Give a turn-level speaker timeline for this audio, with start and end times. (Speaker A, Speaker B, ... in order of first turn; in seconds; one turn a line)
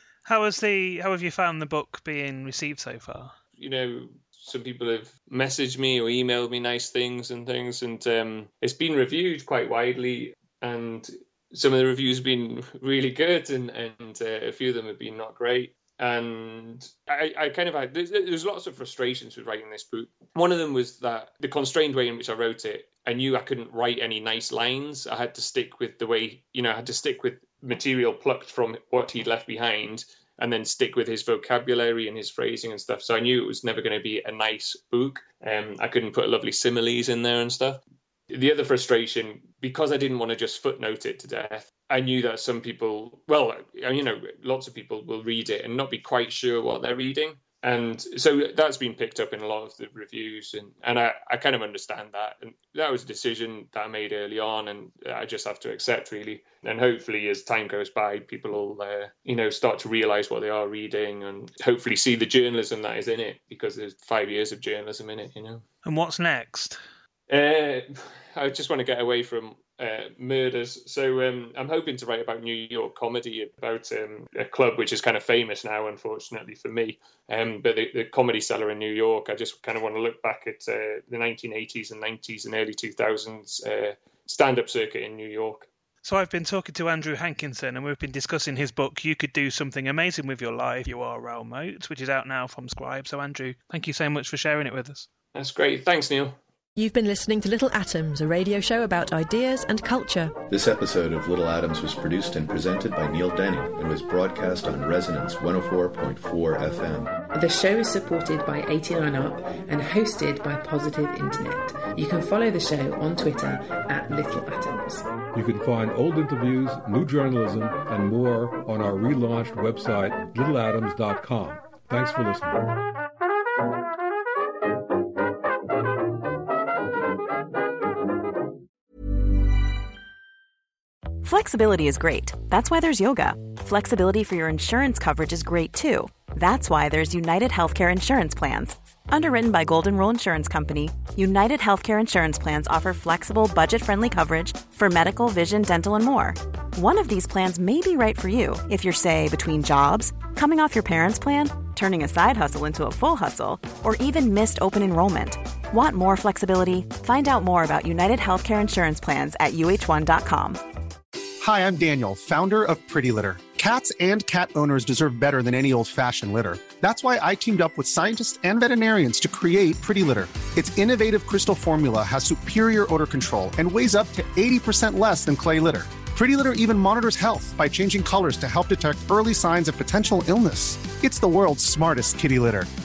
Speaker A: 0.2-3.3
Speaker B: 3.6-65.6
Speaker A: 65.8-66.8
Speaker B: 67.3-85.7
Speaker A: 86.0-95.1
Speaker B: 95.3-96.4
Speaker C: 96.8-100.4
Speaker D: 100.5-107.1
Speaker E: 107.3-115.1
Speaker F: 115.3-122.7
Speaker G: 131.2-160.6
Speaker H: 161.4-182.7